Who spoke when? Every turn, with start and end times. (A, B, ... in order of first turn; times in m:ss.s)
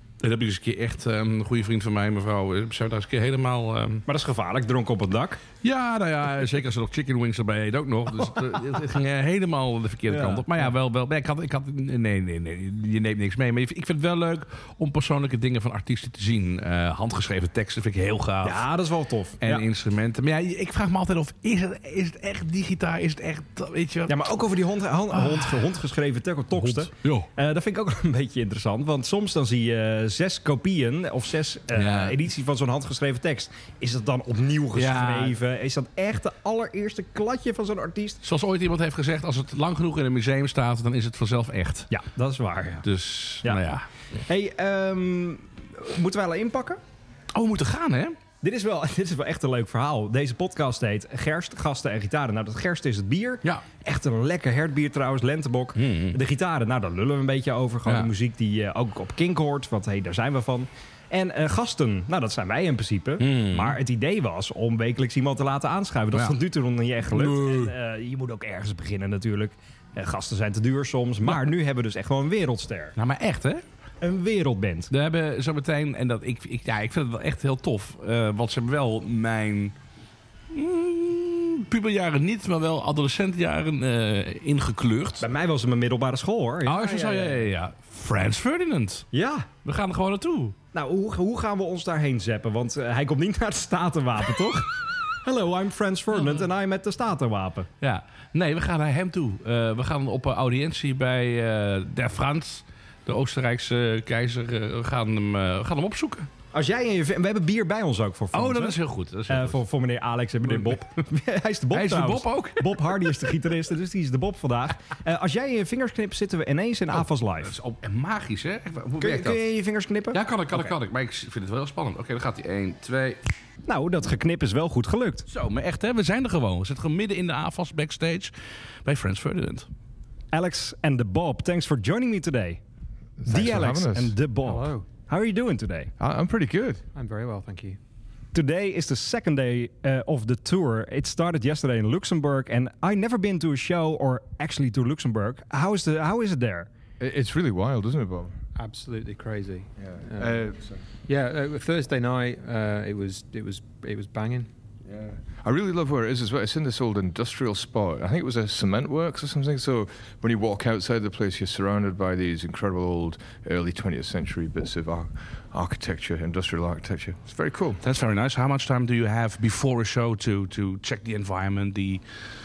0:00.2-0:04.0 A
0:04.0-0:05.4 B
0:05.6-0:18.6 A
0:10.1-0:10.6 B
0:18.4-0:19.6 B
0:19.4-0:24.2 A
0:24.1-0:38.2 B
0:25.1-0:25.6 A
0:26.5-0:27.3 A
0:31.7-0:32.2 A
0:34.7-0:35.4 A
0:38.2-0:41.9 A
0:41.9-0:42.8 B
0:42.8-0:43.9 A
0:44.3-0:46.8 B
0:47.3-0:48.2 A
0:48.4-1:12.9 B
0:55.8-0:56.2 A
0:57.8-0:58.1 A
1:03.2-1:03.8 A
1:07.1-1:07.7 A
1:13.0-1:13.6 A
1:14.0-1:14.9 B
1:14.9-1:19.7 A
1:20.5-1:25.2 A
1:25.2-1:27.4 B
1:26.6-1:29.1 A
1:29.1-1:29.5 B
1:29.6-1:30.6 A
1:30.7-1:37.7 B
1:37.8-1:46.3 A
1:46.5-1:57.5 B
1:48.3-1:49.6 A
1:51.7-1:53.0 A
1:56.9-1:59.4 A
1:59.0-2:00.7 B
2:00.1-2:03.2 A
2:03.6-2:05.2 B
2:05.3-2:08.3 A
2:08.8-2:09.7 A
2:10.3-2:12.6 B
2:13.2-2:14.1 C
2:13.2-2:15.9 B
2:14.4-2:14.9 D
2:16.0-2:16.8 C
2:16.9-2:17.8 D
2:18.3-2:26.7 B
2:27.0-2:28.4 C
2:28.6-2:30.5 D
2:29.8-2:30.8 C
2:31.1-2:34.5 D
2:34.8-2:47.8 C
2:47.8-2:52.0 A